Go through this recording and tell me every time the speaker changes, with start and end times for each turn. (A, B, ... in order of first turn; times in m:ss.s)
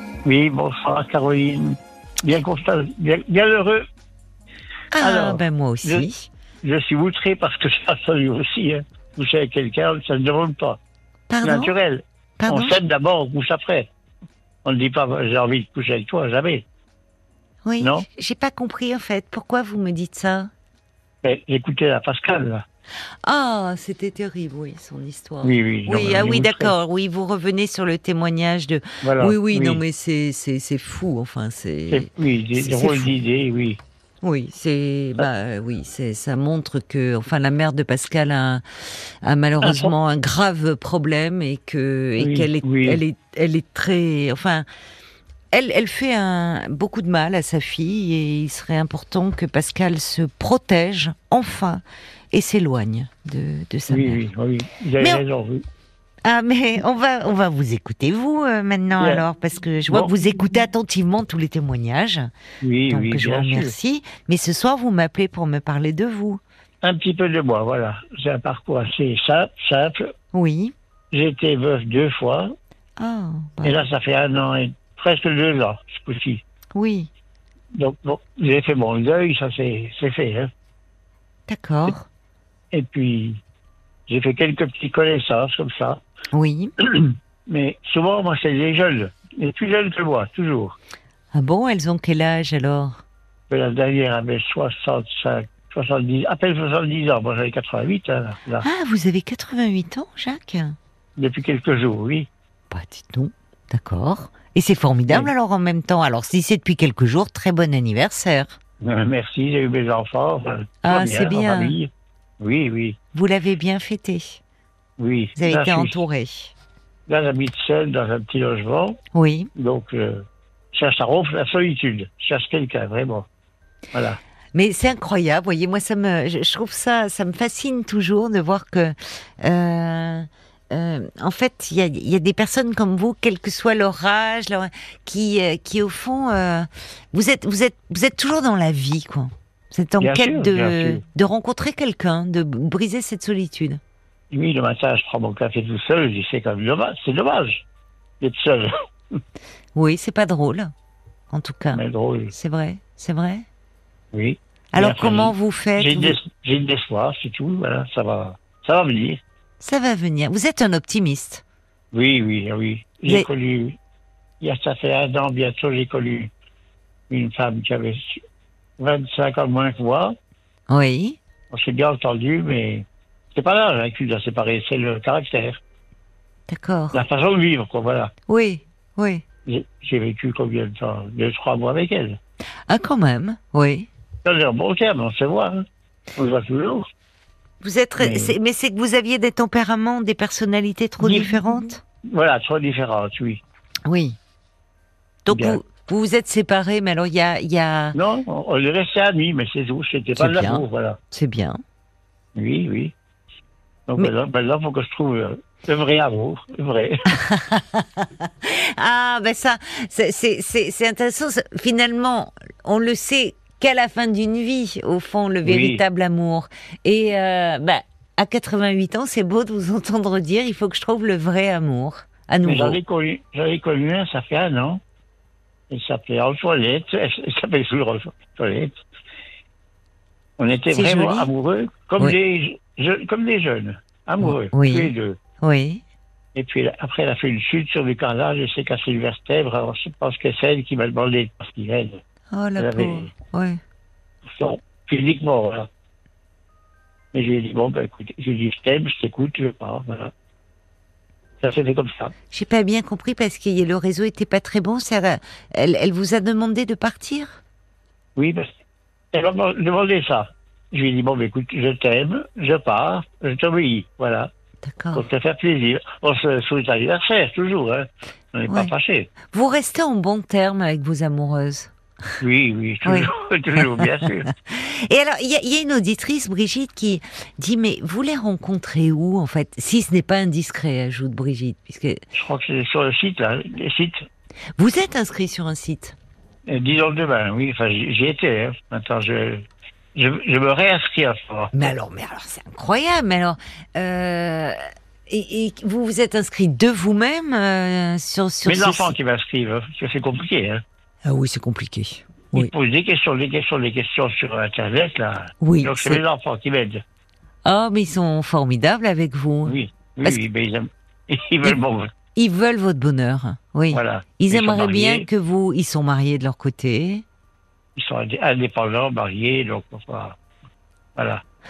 0:00.2-0:03.8 A
0:04.9-0:06.3 B
0:05.0-0:06.1 A
0:06.6-0:10.8 A
0:11.3-0:11.7 B
0:11.4-0:13.9 A
0:12.4-0:12.8 B
0:14.6-0:16.6 A
0:17.6-0:20.5 B
0:17.8-0:18.0 A
0:21.2-0:22.6 A
0:23.2-0:33.2 B
0:25.4-0:26.7 A
0:29.0-0:29.8 A
0:31.9-0:33.8 A
0:34.2-0:38.6 B
0:39.2-0:44.7 B
0:39.6-0:40.0 A
0:42.2-0:43.0 A
0:45.5-0:54.2 B
0:53.9-0:55.6 A
0:56.2-1:02.3 B
0:59.0-0:59.2 A
1:02.6-1:03.7 A
1:02.9-1:06.4 B
1:06.8-1:10.1 A
1:10.3-1:10.7 B
1:11.1-1:12.5 A
1:13.0-1:13.8 B
1:13.6-1:16.4 A
1:16.8-1:17.1 B
1:17.8-1:20.5 A
1:21.5-1:22.1 B
1:22.7-1:23.4 A
1:24.1-1:26.0 A
1:26.3-1:26.7 B
1:26.9-1:30.8 A
1:31.3-1:33.0 B
1:33.5-1:38.7 A
1:38.6-1:40.8 B
1:41.2-1:42.3 A
1:42.7-1:48.6 B
1:48.8-1:53.0 A
1:50.8-1:51.8 B
1:53.1-1:54.4 B
1:55.0-1:56.0 A
1:55.4-1:56.5 B
1:57.1-1:59.0 A
1:59.1-1:59.5 B
1:59.6-2:00.2 A
2:00.7-2:03.2 A
2:04.5-2:23.8 B
2:20.0-2:21.0 A
2:24.3-2:27.6 A
2:28.2-2:28.7 A
2:29.8-2:30.7 B
2:31.3-2:31.8 B
2:31.7-2:32.3 A
2:32.3-2:33.5 B
2:34.1-2:39.2 A
2:34.7-2:36.2 B
2:39.6-2:41.4 B
2:41.9-2:43.8 A
2:44.4-2:46.3 A
2:47.1-2:48.2 A
2:48.8-2:50.2 A
2:50.7-2:51.2 B
2:51.5-2:55.6 A
2:56.5-2:57.0 B
2:56.9-2:58.1 A
2:58.3-2:59.2 B
2:59.5-3:02.2 A
3:02.7-3:03.9 B
3:04.2-3:05.6 A
3:06.2-3:06.9 A
3:07.6-3:11.8 B
3:08.0-3:08.3 A
3:11.0-3:11.4 A
3:12.1-3:13.4 A
3:13.9-3:14.2 B
3:15.3-3:18.0 B
3:15.3-3:15.6 A
3:18.0-3:21.0 A
3:20.2-3:21.6 B
3:22.4-3:22.9 A
3:23.9-3:27.0 A
3:27.2-3:42.8 B
3:35.4-3:35.8 A
3:42.5-3:44.8 A
3:45.7-3:48.8 A
3:50.4-3:55.2 A
3:50.7-3:51.3 B
3:54.2-3:55.8 B
3:56.4-4:02.0 A
4:02.3-4:03.6 B
4:02.6-4:03.1 A
4:04.4-4:05.7 A
4:07.1-4:10.1 A
4:11.4-4:12.1 A
4:12.3-4:17.4 B
4:18.2-4:18.5 A
4:19.1-4:24.3 A
4:24.6-4:25.1 B
4:24.9-4:29.1 A
4:29.3-4:31.7 B
4:32.2-4:34.3 A
4:32.8-4:33.1 B
4:33.6-4:33.9 B
4:34.4-4:42.0 B
4:42.2-4:44.0 A
4:44.6-4:46.0 B
4:46.5-4:49.4 A
4:50.0-4:51.7 A
4:51.5-4:58.9 B
4:58.4-5:00.6 A
5:01.0-5:02.5 B
5:02.3-5:06.8 A
5:05.4-5:06.0 B
5:07.4-5:10.2 B
5:09.4-5:11.9 A
5:12.2-5:17.0 B
5:13.7-5:15.1 A
5:17.8-5:20.2 A
5:21.0-5:21.2 A